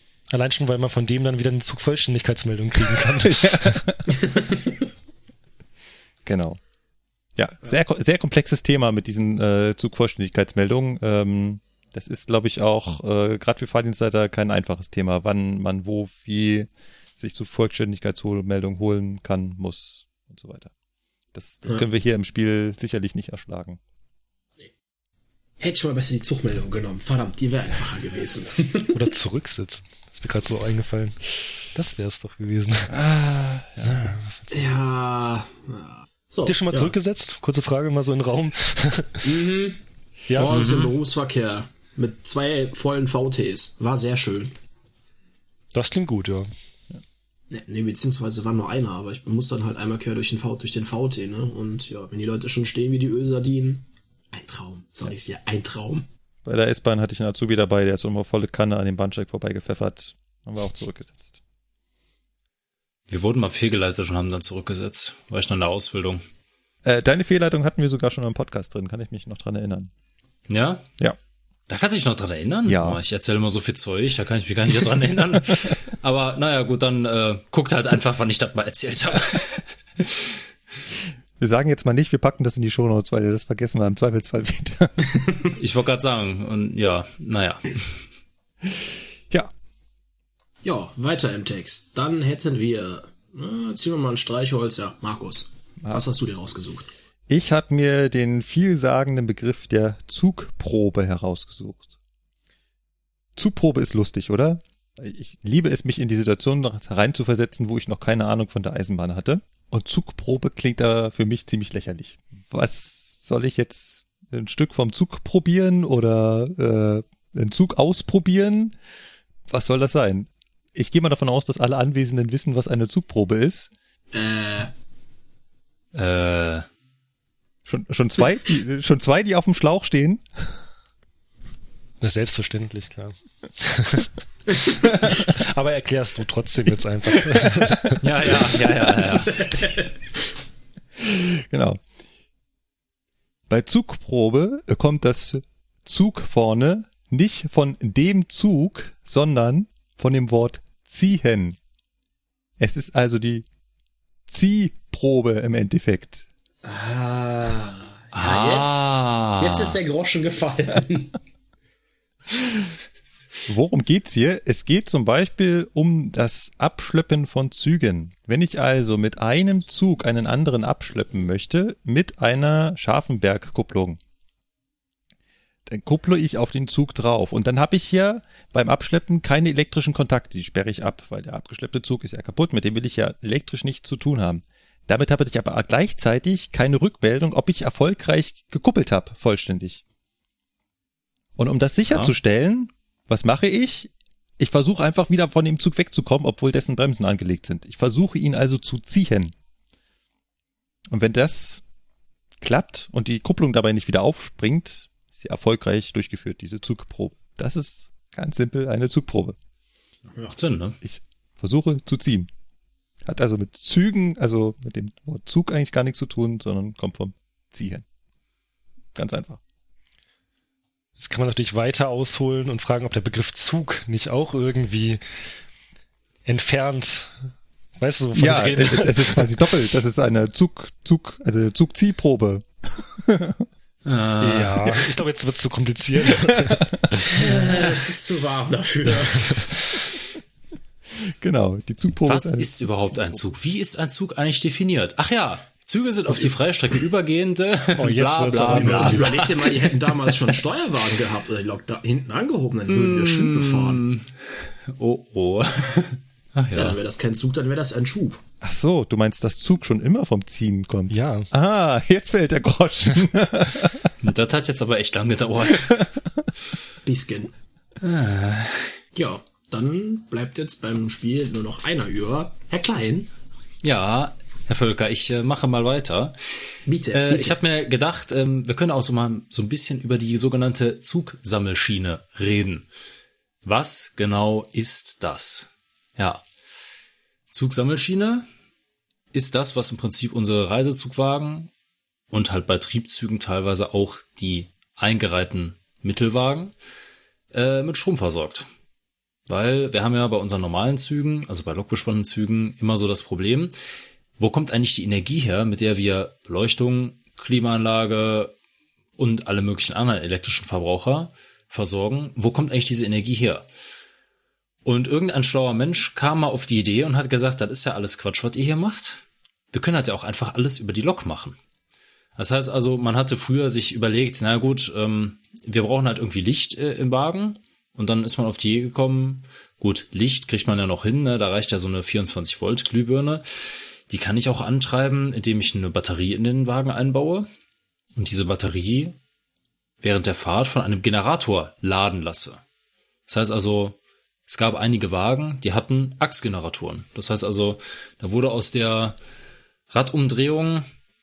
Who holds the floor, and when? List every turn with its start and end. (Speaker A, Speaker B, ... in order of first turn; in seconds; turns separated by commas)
Speaker A: 0.3-3.9, Speaker B: 3.2-4.0, Speaker C: 4.2-4.7, Speaker B: 6.2-6.6, Speaker B: 7.4-20.7, Speaker B: 21.3-23.8, Speaker C: 25.6-29.0, Speaker A: 28.9-33.0, Speaker B: 32.9-34.1, Speaker A: 33.8-34.8, Speaker C: 34.5-36.9, Speaker A: 36.5-39.3, Speaker C: 39.2-39.8, Speaker A: 40.3-40.6, Speaker C: 40.4-44.5, Speaker D: 40.4-40.9, Speaker A: 45.7-46.5, Speaker C: 47.5-56.1, Speaker B: 56.4-61.4, Speaker D: 63.1-66.2, Speaker B: 66.8-69.9, Speaker D: 70.5-70.8, Speaker D: 71.7-80.3, Speaker B: 72.6-73.0, Speaker B: 81.4-85.0, Speaker D: 85.6-88.0, Speaker C: 90.6-96.9, Speaker B: 97.3-101.9, Speaker B: 103.3-118.8, Speaker B: 119.5-123.7, Speaker C: 124.1-124.7, Speaker D: 125.9-126.7, Speaker B: 127.7-130.6, Speaker A: 132.0-134.1, Speaker A: 134.8-138.0, Speaker B: 137.6-137.9, Speaker D: 138.0-139.4, Speaker C: 139.4-139.9, Speaker B: 141.0-141.8, Speaker B: 143.5-151.6, Speaker B: 152.6-153.4, Speaker B: 154.3-156.2, Speaker C: 156.6-161.2, Speaker D: 158.1-159.8, Speaker B: 163.5-174.0, Speaker B: 175.7-189.8, Speaker B: 191.4-199.3, Speaker D: 191.9-192.1, Speaker B: 200.9-201.6, Speaker B: 202.4-209.4, Speaker D: 210.2-210.8, Speaker B: 210.8-212.3, Speaker B: 213.0-217.8, Speaker B: 218.9-219.4, Speaker A: 221.0-225.0, Speaker A: 226.2-227.1, Speaker A: 227.8-229.3, Speaker B: 228.1-233.4, Speaker D: 233.8-234.9, Speaker A: 234.2-237.5, Speaker B: 236.4-236.8, Speaker C: 237.1-239.6, Speaker D: 237.2-237.8, Speaker B: 239.4-239.8, Speaker B: 241.1-243.3, Speaker D: 242.1-250.3, Speaker A: 247.8-249.2, Speaker C: 248.5-253.8, Speaker D: 252.7-256.8, Speaker C: 256.5-258.2, Speaker B: 258.4-263.9, Speaker A: 260.9-261.3, Speaker D: 264.0-265.8, Speaker B: 265.5-266.3, Speaker C: 266.8-267.3, Speaker D: 267.8-268.8, Speaker C: 268.9-273.1, Speaker D: 273.6-282.7, Speaker C: 276.6-277.4, Speaker D: 283.4-286.2, Speaker D: 287.3-288.3, Speaker D: 289.1-291.5, Speaker D: 292.1-296.5, Speaker D: 297.3-298.5, Speaker D: 299.3-303.5, Speaker D: 304.2-308.3, Speaker D: 309.0-313.4, Speaker D: 314.6-321.4, Speaker D: 322.2-337.3, Speaker D: 337.9-338.9, Speaker D: 339.8-342.4, Speaker D: 343.1-349.0, Speaker D: 349.7-350.7